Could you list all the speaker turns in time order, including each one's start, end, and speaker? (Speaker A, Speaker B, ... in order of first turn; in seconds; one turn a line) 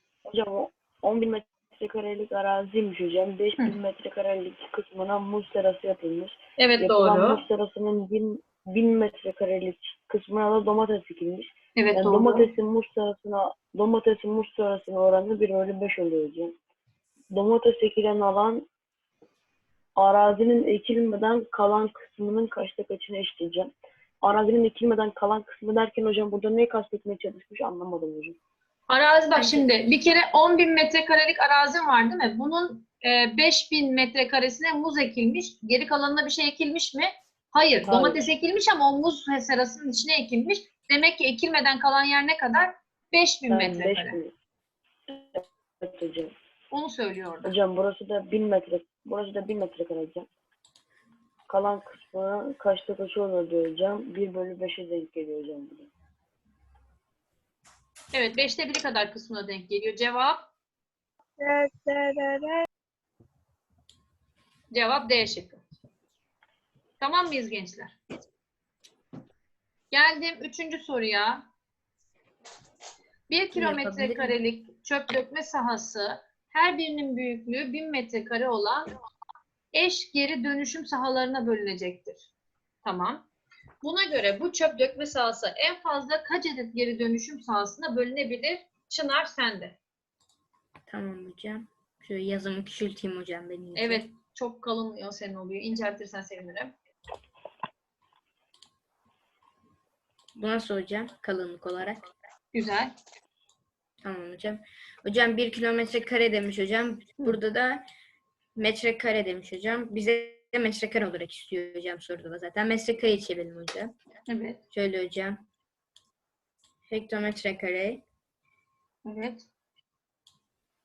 Speaker A: 0.3-16.5
Speaker B: 6.6-7.4
Speaker B: 11.8-12.5
Speaker A: 17.3-18.7
Speaker A: 20.0-28.4
Speaker B: 28.9-44.2
Speaker A: 37.8-38.2
Speaker A: 43.5-44.3
Speaker A: 45.1-46.3
Speaker B: 46.7-47.5
Speaker A: 47.4-50.3
Speaker A: 51.5-55.9
Speaker B: 58.1-60.5
Speaker B: 64.7-65.6
Speaker B: 67.0-68.0
Speaker B: 69.9-71.5
Speaker B: 73.3-78.9
Speaker C: 73.5-74.4
Speaker B: 79.7-82.3
Speaker B: 82.8-83.2
Speaker B: 83.8-89.8
Speaker C: 90.9-94.0
Speaker B: 93.8-96.7
Speaker C: 100.4-102.0
Speaker B: 102.5-103.0
Speaker C: 104.0-107.8
Speaker C: 108.6-113.9
Speaker B: 114.3-114.6
Speaker C: 114.7-115.4
Speaker C: 116.9-118.0
Speaker B: 119.0-119.5